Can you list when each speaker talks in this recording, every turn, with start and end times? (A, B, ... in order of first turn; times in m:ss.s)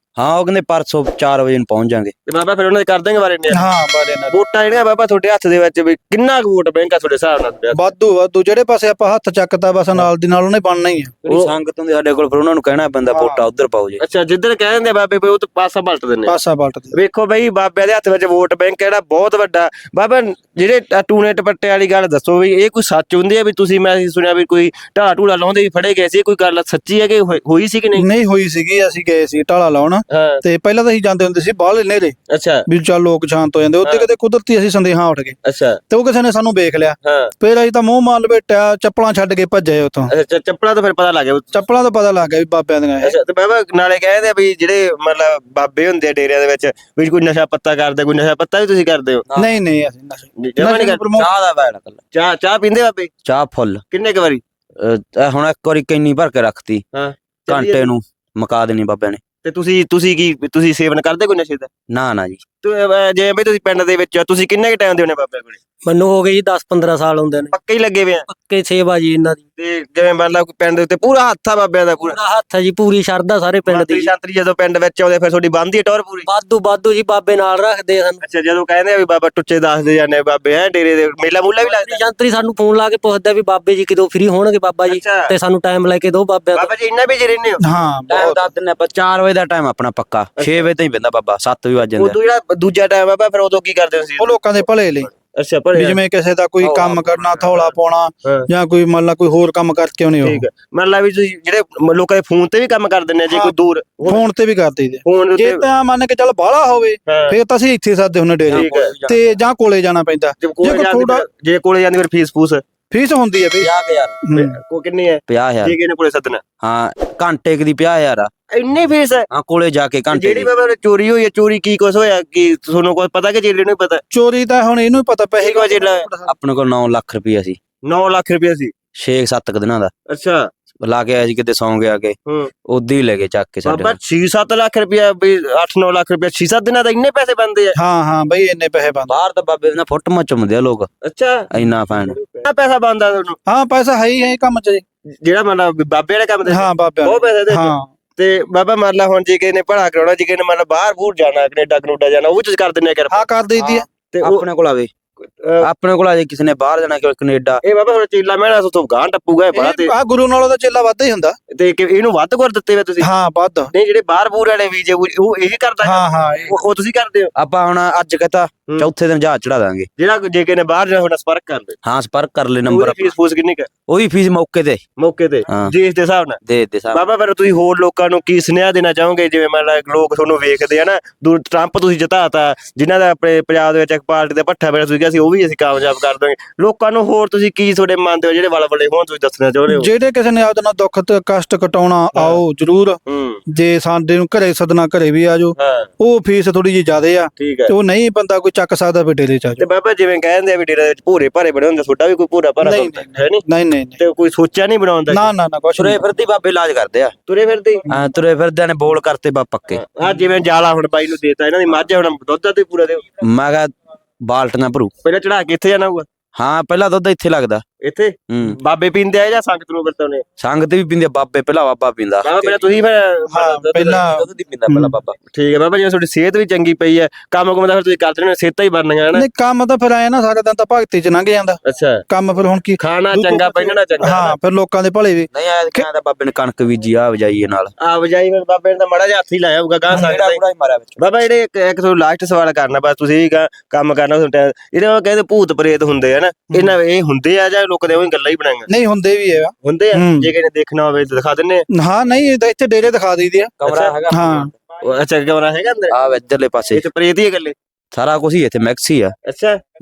0:00.2-0:02.1 A
0:02.3-0:03.6 B
0:03.5-0:04.3 C
0:04.3-0:07.9 B
0:07.7-0:11.1 C
0:11.2-0:11.5 B
0:11.2-0:14.0 A
0:13.1-0:13.4 C
0:14.0-0:16.3 B
0:16.2-0:16.9 C
0:16.9-0:28.0 B
0:28.0-0:32.1 C
0:30.1-0:30.4 B
0:32.3-0:32.6 B
0:32.7-0:35.4 C
0:35.4-0:35.8 B
0:35.9-0:40.1 C
0:37.0-0:37.3 B
0:40.1-0:41.5 B
0:41.5-0:43.1 C
0:43.0-0:49.2 B
0:49.3-0:49.5 A
0:49.4-0:51.3 C
0:50.4-0:51.0 B
0:51.2-0:52.0 A
0:52.1-0:53.1 B
0:53.2-0:53.8 A
0:53.9-0:54.4 B
0:54.8-0:56.8 A
0:56.9-0:57.9 B
0:57.5-0:59.2 A
0:59.4-1:01.7 B
1:01.9-1:02.4 A
1:02.6-1:05.6 B
1:05.8-1:07.5 D
1:07.5-1:08.3 B
1:08.3-1:09.4 D
1:09.6-1:12.2 B
1:12.0-1:14.1 D
1:13.7-1:16.2 B
1:16.2-1:18.2 D
1:18.2-1:22.0 B
1:21.6-1:26.7 D
1:24.8-1:25.3 B
1:26.5-1:27.6 B
1:27.6-1:28.5 C
1:28.1-1:32.2 A
1:30.4-1:30.6 B
1:32.0-1:36.0 B
1:34.2-1:35.1 C
1:35.7-1:40.5 C
1:36.6-1:37.7 A
1:40.2-1:44.2 B
1:43.3-1:43.5 C
1:44.0-1:51.2 C
1:45.0-1:45.6 B
1:47.1-1:47.4 B
1:48.4-1:49.4 A
1:48.5-1:48.9 B
1:50.4-1:52.6 B
1:52.9-1:53.7 C
1:53.6-1:54.2 A
1:54.2-1:54.6 C
1:54.3-1:56.4 B
1:55.3-1:55.8 A
1:56.6-1:58.3 A
1:58.5-1:59.3 B
1:59.3-2:00.5 A
2:00.1-2:04.0 B
2:04.1-2:06.3 C
2:05.4-2:06.1 B
2:06.3-2:07.6 A
2:07.8-2:08.7 B
2:09.0-2:09.9 A
2:10.1-2:10.5 B
2:10.8-2:12.2 A
2:12.2-2:12.5 B
2:12.7-2:14.0 A
2:13.6-2:17.8 B
2:17.8-2:19.2 C
2:19.1-2:20.9 A
2:21.0-2:23.4 B
2:21.5-2:22.2 A
2:23.5-2:24.8 C
2:25.2-2:33.3 B
2:26.4-2:27.9 C
2:33.1-2:33.8 C
2:33.6-2:34.9 A
2:34.1-2:34.4 B
2:35.4-2:35.7 B
2:35.6-2:37.6 A
2:37.6-2:39.9 B
2:39.5-2:41.4 C
2:41.5-2:43.1 B
2:43.0-2:43.7 C
2:43.7-2:47.3 B
2:45.8-2:46.6 C
2:47.4-2:49.9 A
2:50.0-2:51.8 B
2:51.8-2:53.1 A
2:52.7-2:53.7 B
2:53.9-2:54.8 A
2:55.0-2:56.4 B
2:55.5-2:55.7 A
2:56.4-2:57.0 A
2:56.9-3:09.9 B
3:09.7-3:13.0 C
3:13.1-3:13.4 B
3:13.5-3:19.7 C
3:15.6-3:15.9 B
3:17.4-3:17.7 B
3:19.6-3:23.4 B
3:22.6-3:24.0 C
3:24.0-3:25.3 B
3:25.1-3:26.0 C
3:25.8-3:27.1 A
3:27.3-3:27.8 B
3:27.9-3:29.8 A
3:29.7-3:33.0 B
3:33.2-3:33.7 A
3:34.2-3:34.9 A
3:35.0-3:36.0 B
3:36.3-3:37.6 A
3:37.8-3:40.2 B
3:38.3-3:38.6 A
3:40.4-3:42.6 A
3:42.2-3:44.0 B
3:43.3-3:45.0 C
3:44.1-3:45.2 A
3:45.3-3:49.2 B
3:49.1-3:55.8 C
3:51.6-3:52.0 B
3:52.8-3:54.3 B
3:55.3-3:57.7 A
3:57.8-4:00.4 B
3:59.9-4:01.0 A
4:01.0-4:08.7 B
4:08.7-4:10.3 C
4:09.6-4:11.6 B
4:11.7-4:13.5 C
4:13.6-4:14.5 A
4:13.6-4:13.9 B
4:14.1-4:14.5 C
4:14.8-4:15.9 B
4:15.9-4:16.8 A
4:16.7-4:17.5 B
4:17.9-4:19.1 A
4:19.3-4:19.6 B